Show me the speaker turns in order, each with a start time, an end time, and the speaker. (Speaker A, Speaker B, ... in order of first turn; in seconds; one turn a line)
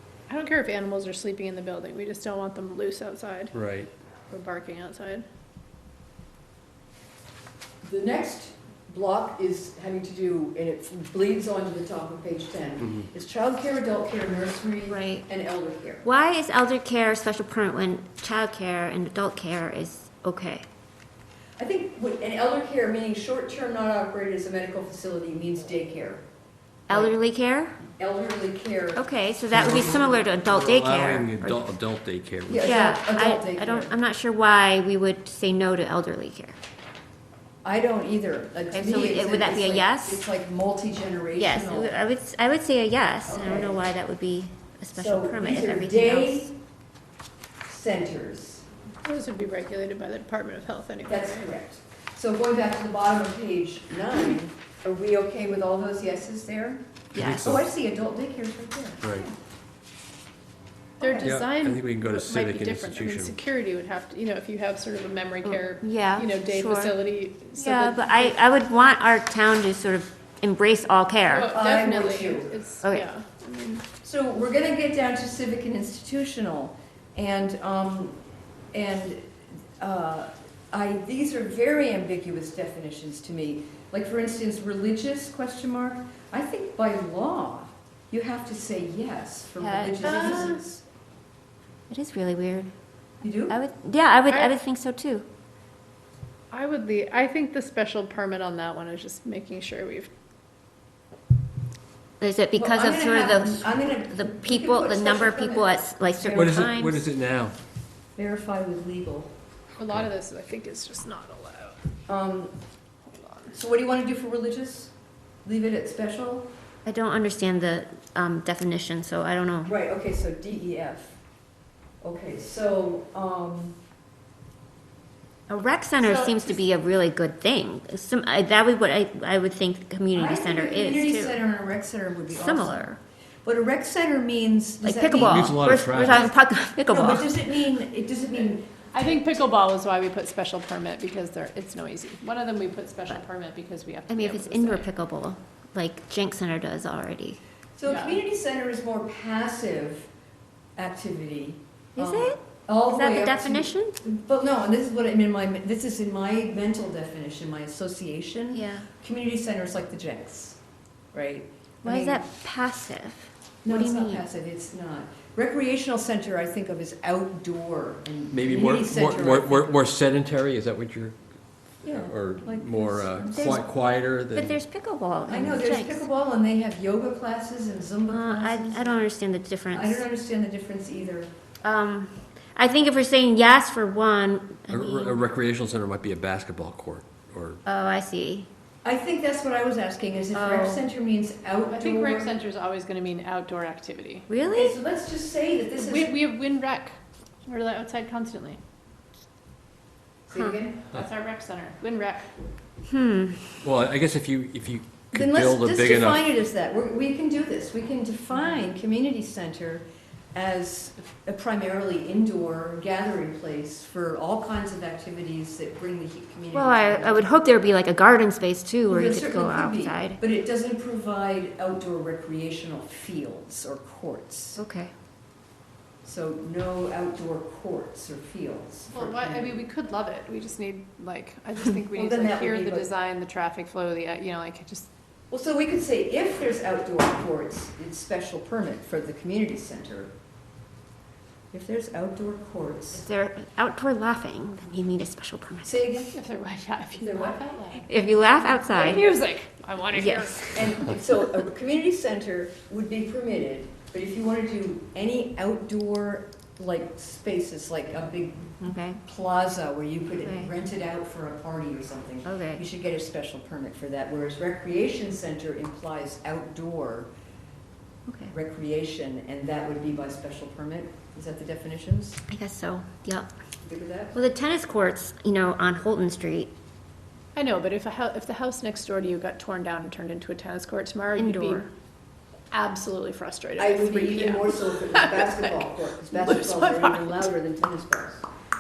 Speaker A: 0.3-3.5
Speaker B: 3.5-3.9
Speaker A: 4.3-5.2
Speaker C: 7.8-16.0
Speaker D: 14.9-15.3
Speaker D: 16.0-20.7
Speaker C: 21.6-26.2
Speaker D: 26.9-27.8
Speaker C: 26.9-27.1
Speaker C: 28.0-30.2
Speaker D: 28.9-31.7
Speaker B: 29.5-32.8
Speaker C: 32.5-33.9
Speaker D: 32.6-36.6
Speaker C: 37.6-42.0
Speaker D: 38.7-40.3
Speaker D: 41.4-46.5
Speaker C: 43.3-43.8
Speaker C: 45.0-46.5
Speaker C: 47.7-48.6
Speaker A: 49.0-51.5
Speaker C: 51.1-59.4
Speaker D: 57.1-57.6
Speaker B: 57.1-57.7
Speaker C: 61.0-61.4
Speaker A: 61.0-68.4
Speaker B: 61.2-63.4
Speaker D: 65.4-67.0
Speaker D: 67.6-71.5
Speaker A: 71.2-73.4
Speaker C: 71.5-72.6
Speaker D: 72.8-73.8
Speaker C: 74.0-78.2
Speaker C: 78.7-79.3
Speaker C: 79.8-90.8
Speaker D: 89.6-90.4
Speaker A: 90.0-90.6
Speaker D: 91.9-92.7
Speaker C: 93.2-93.6
Speaker D: 93.5-95.3
Speaker A: 94.3-94.5
Speaker A: 96.5-100.1
Speaker D: 102.2-107.0
Speaker C: 102.6-106.7
Speaker B: 106.3-107.5
Speaker C: 108.2-109.3
Speaker A: 109.8-111.8
Speaker C: 112.1-112.6
Speaker A: 113.1-113.6
Speaker C: 113.5-114.9
Speaker C: 115.4-116.5
Speaker D: 116.8-119.7
Speaker C: 119.7-121.2
Speaker C: 122.0-123.8
Speaker D: 125.5-131.4
Speaker A: 126.0-126.6
Speaker C: 130.1-136.3
Speaker D: 132.3-133.0
Speaker D: 134.8-137.3
Speaker B: 135.2-136.3
Speaker C: 136.9-139.3
Speaker A: 138.9-144.9
Speaker D: 144.1-147.4
Speaker C: 147.8-150.1
Speaker A: 147.8-148.2
Speaker C: 150.8-160.6
Speaker D: 152.0-154.0
Speaker D: 158.5-158.9
Speaker C: 161.1-162.2
Speaker D: 161.8-164.2
Speaker C: 163.6-169.8
Speaker B: 168.3-171.2
Speaker C: 171.8-173.6
Speaker B: 171.9-174.6
Speaker D: 173.3-173.7
Speaker D: 174.3-176.1
Speaker C: 175.3-179.0
Speaker D: 178.1-180.1
Speaker C: 179.7-181.3
Speaker D: 181.6-185.2
Speaker B: 184.7-187.6
Speaker D: 187.7-188.5
Speaker C: 188.8-192.3
Speaker D: 190.3-190.8
Speaker A: 191.7-194.3
Speaker D: 194.3-194.8
Speaker C: 194.5-196.2
Speaker A: 195.8-197.0
Speaker A: 197.5-198.6
Speaker C: 200.3-200.9
Speaker D: 200.3-200.6
Speaker A: 200.9-202.3
Speaker D: 202.9-203.6
Speaker B: 203.6-206.3
Speaker C: 205.1-217.3
Speaker D: 216.5-220.2
Speaker C: 218.9-224.6
Speaker D: 224.6-224.9
Speaker C: 226.0-229.7
Speaker A: 228.9-234.9
Speaker C: 231.9-232.9
Speaker C: 235.3-240.1
Speaker C: 241.5-243.1
Speaker D: 242.9-246.1
Speaker C: 245.7-246.1
Speaker A: 246.1-250.9
Speaker C: 247.0-247.4
Speaker D: 247.9-249.1
Speaker D: 249.9-250.6
Speaker C: 250.5-267.1
Speaker D: 258.6-259.0
Speaker D: 260.2-260.5
Speaker D: 262.2-262.6
Speaker D: 268.1-268.3
Speaker C: 268.3-272.2
Speaker D: 272.3-273.3
Speaker C: 273.6-274.2
Speaker D: 274.1-276.5
Speaker A: 277.4-281.7
Speaker D: 281.2-281.7
Speaker A: 282.5-287.3
Speaker C: 283.6-288.3